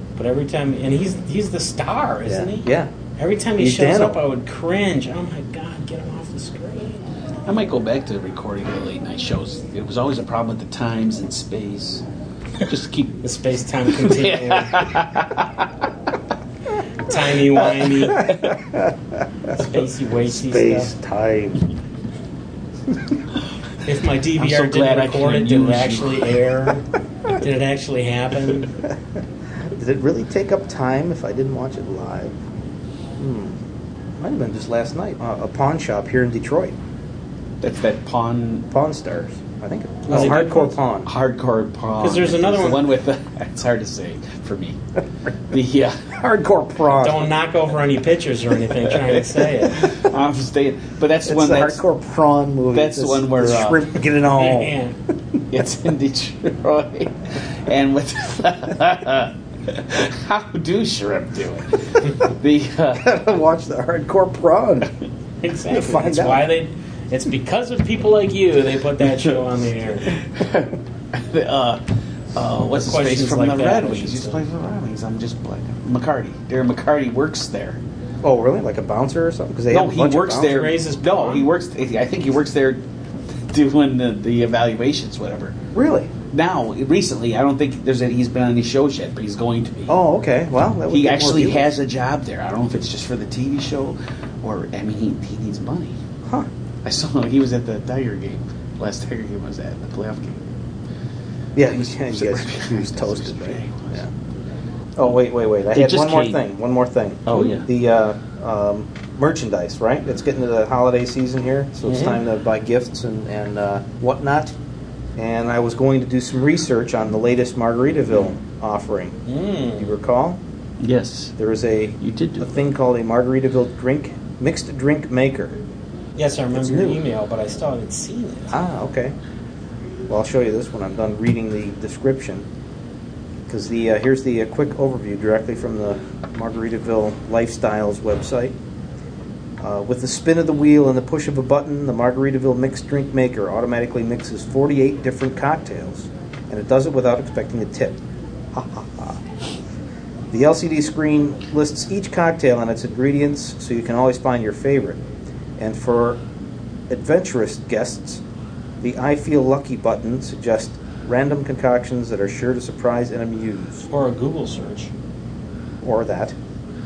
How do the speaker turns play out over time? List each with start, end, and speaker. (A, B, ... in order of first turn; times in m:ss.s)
0:00.2-0:07.0 A
0:02.2-0:02.9 B
0:03.6-0:04.2 B
0:07.4-0:12.0 C
0:12.6-0:13.2 C
0:13.2-0:14.9 A
0:14.0-0:15.7 C
0:17.0-0:18.3 A
0:17.6-0:18.4 C
0:18.2-0:19.0 B
0:19.5-0:20.9 A
0:20.2-0:21.6 B
0:23.8-0:28.8 A
0:24.4-0:26.4 C
0:29.7-0:32.3 B
0:33.2-0:33.6 B
0:34.2-0:36.7 B
0:37.6-0:38.7 C
0:38.7-0:41.1 B
0:40.1-0:40.8 A
0:40.1-0:40.5 C
0:41.0-0:44.8 C
0:42.0-0:42.8 A
0:45.5-0:46.1 C
0:46.1-0:47.3 B
0:46.9-0:50.0 A
0:49.7-0:51.8 C
0:51.3-0:54.7 B
0:52.7-0:53.9 C
0:54.3-0:55.0 A
0:55.5-1:03.0 C
1:02.9-1:04.9 B
1:05.4-1:10.2 A
1:05.7-1:06.4 B
1:10.1-1:11.8 C
1:12.3-1:17.8 C
1:12.7-1:14.4 A
1:18.2-1:20.7 B
1:19.7-1:22.8 C
1:20.4-1:21.5 A
1:23.5-1:25.6 C
1:25.7-1:26.1 B
1:26.3-1:30.0 C
1:29.9-1:31.7 B
1:30.9-1:36.0 C
1:36.8-1:40.4 C
1:41.6-1:44.1 B
1:41.7-1:44.0 C
1:45.0-1:54.5 B
1:45.7-1:46.4 C
1:47.2-1:47.7 C
1:51.8-1:52.2 A
1:55.2-1:59.2 B
1:59.3-1:59.9 A
1:59.8-2:00.4 B
2:00.8-2:01.4 C
2:01.4-2:05.6 B
2:02.0-2:02.5 C
2:06.2-2:08.6 A
2:06.5-2:07.0 B
2:08.5-2:09.2 B
2:10.1-2:12.5 B
2:13.5-2:18.6 B
2:19.6-2:28.0 B
2:28.5-2:29.2 B
2:30.3-2:35.0 B
2:35.6-2:36.2 B
2:36.9-2:38.2 B
2:38.8-2:43.9 B
2:43.9-2:44.9 A
2:45.8-2:46.3 B